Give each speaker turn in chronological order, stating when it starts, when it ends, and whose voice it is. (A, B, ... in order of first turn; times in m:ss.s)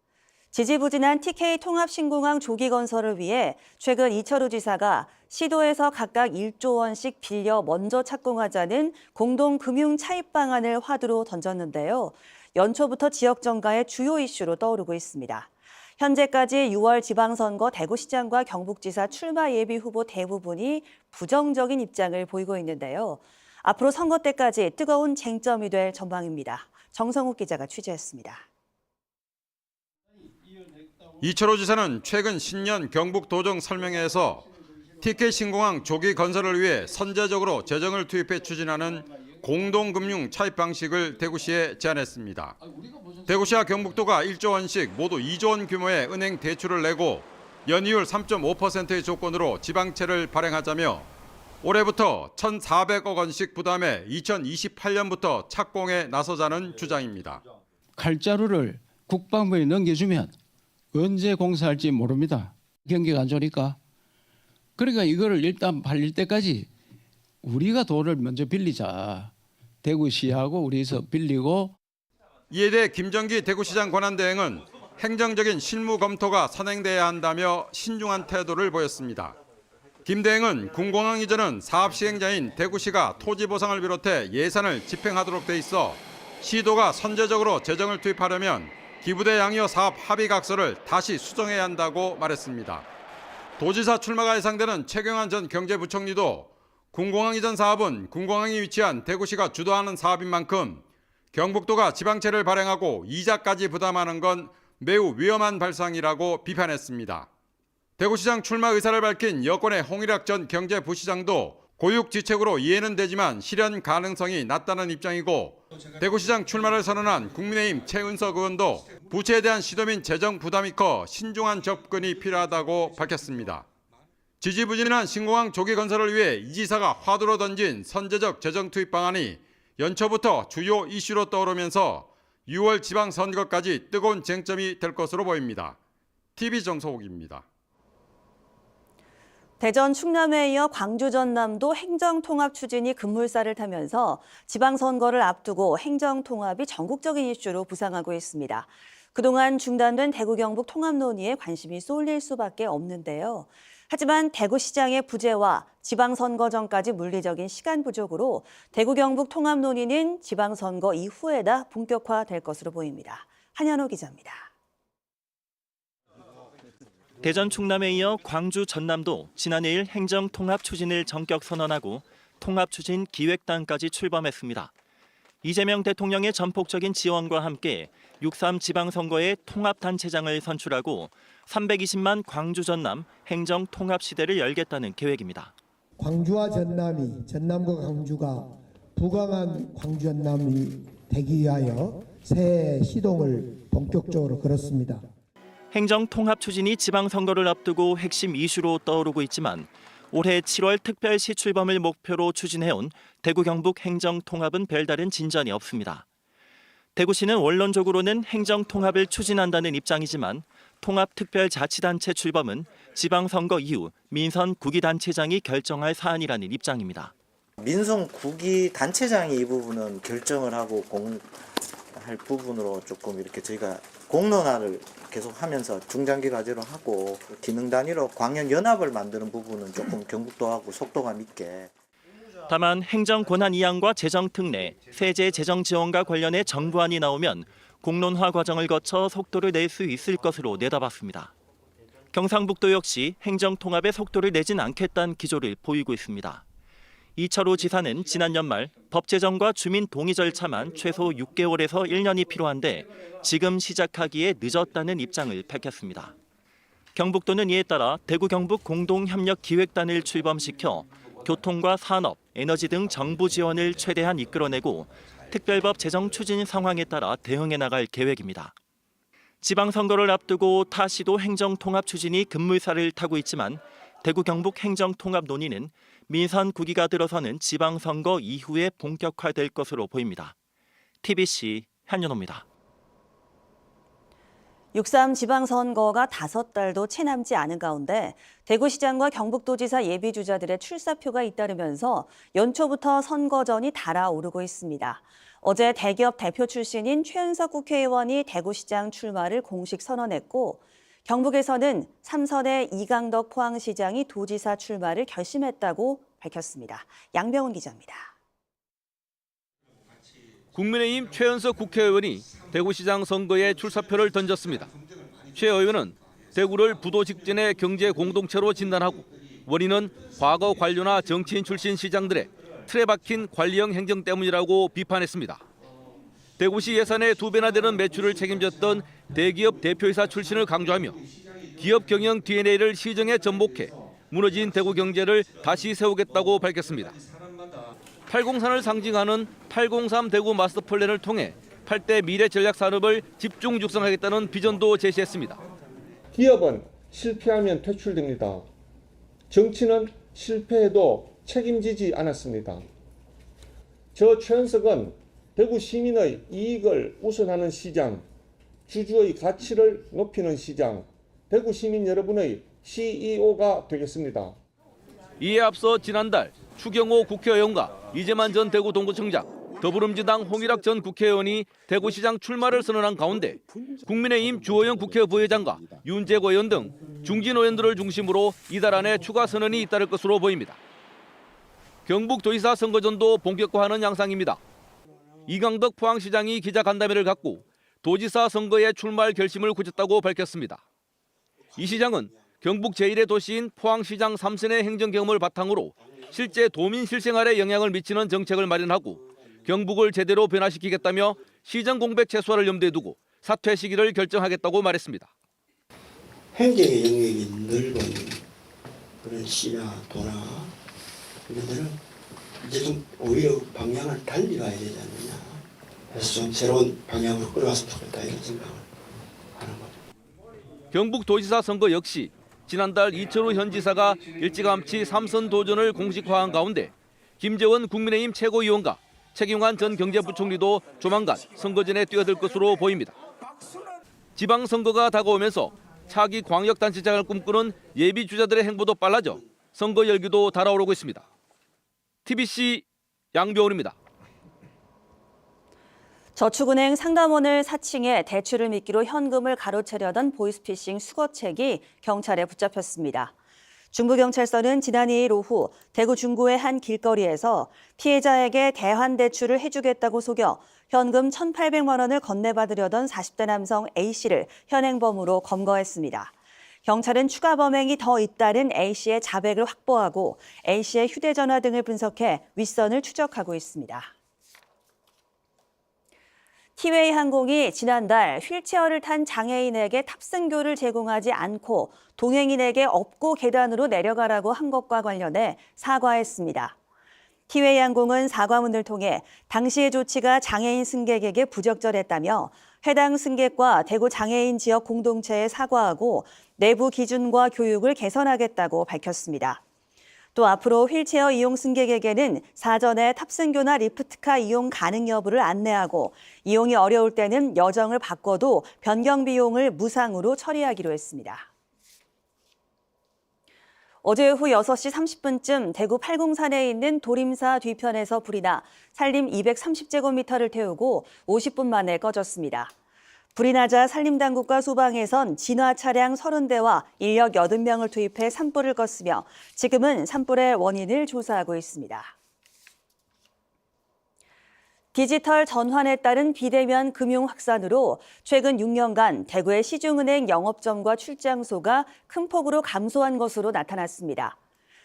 0:00.5-0:28.4 A
0:31.2-0:34.5 B
0:35.0-0:42.6 B
0:42.8-0:43.4 C
0:43.3-0:51.1 B
0:51.6-0:57.4 B
0:58.0-1:00.4 C
1:00.9-1:03.8 C
1:04.8-1:06.7 C
1:07.4-1:11.8 C
1:12.5-1:19.4 B
1:20.0-1:32.9 B
1:33.6-1:47.3 B
1:48.0-2:03.7 B
2:04.4-2:15.8 B
2:16.4-2:17.4 B
2:19.6-2:44.5 A
2:47.2-2:54.7 D
2:55.4-3:05.5 D
3:06.0-3:15.0 E
3:15.7-3:26.0 D
3:27.0-3:37.1 D
3:37.6-3:51.7 F
3:52.5-4:01.3 D
4:02.1-4:06.4 D
4:07.2-4:16.1 D
4:17.0-4:28.5 D
4:29.4-4:40.4 D
4:41.0-4:42.4 D
4:44.7-5:08.1 A
5:10.5-5:14.7 G
5:15.3-5:25.4 G
5:26.4-5:31.0 G
5:31.6-5:37.0 G
5:38.1-5:45.4 G
5:46.1-5:48.5 H
5:49.3-5:52.7 H
5:54.0-5:58.1 H
5:58.7-6:04.4 H
6:05.2-6:20.6 G
6:21.9-6:24.4 G
6:25.3-6:30.6 G
6:31.6-6:32.0 I
6:31.6-6:45.1 G
6:46.3-6:48.3 I
6:49.0-6:50.6 I
6:51.3-6:51.8 I
6:52.4-6:58.7 I
6:59.4-6:59.8 I
7:00.7-7:13.0 G
7:14.2-7:21.0 G
7:22.0-7:23.8 G
7:26.2-7:33.1 A
7:33.7-7:53.9 A
7:56.6-8:06.6 A
8:07.3-8:19.4 A
8:20.2-8:31.3 A
8:33.8-8:42.5 A
8:43.2-8:51.9 A
8:54.7-9:04.2 A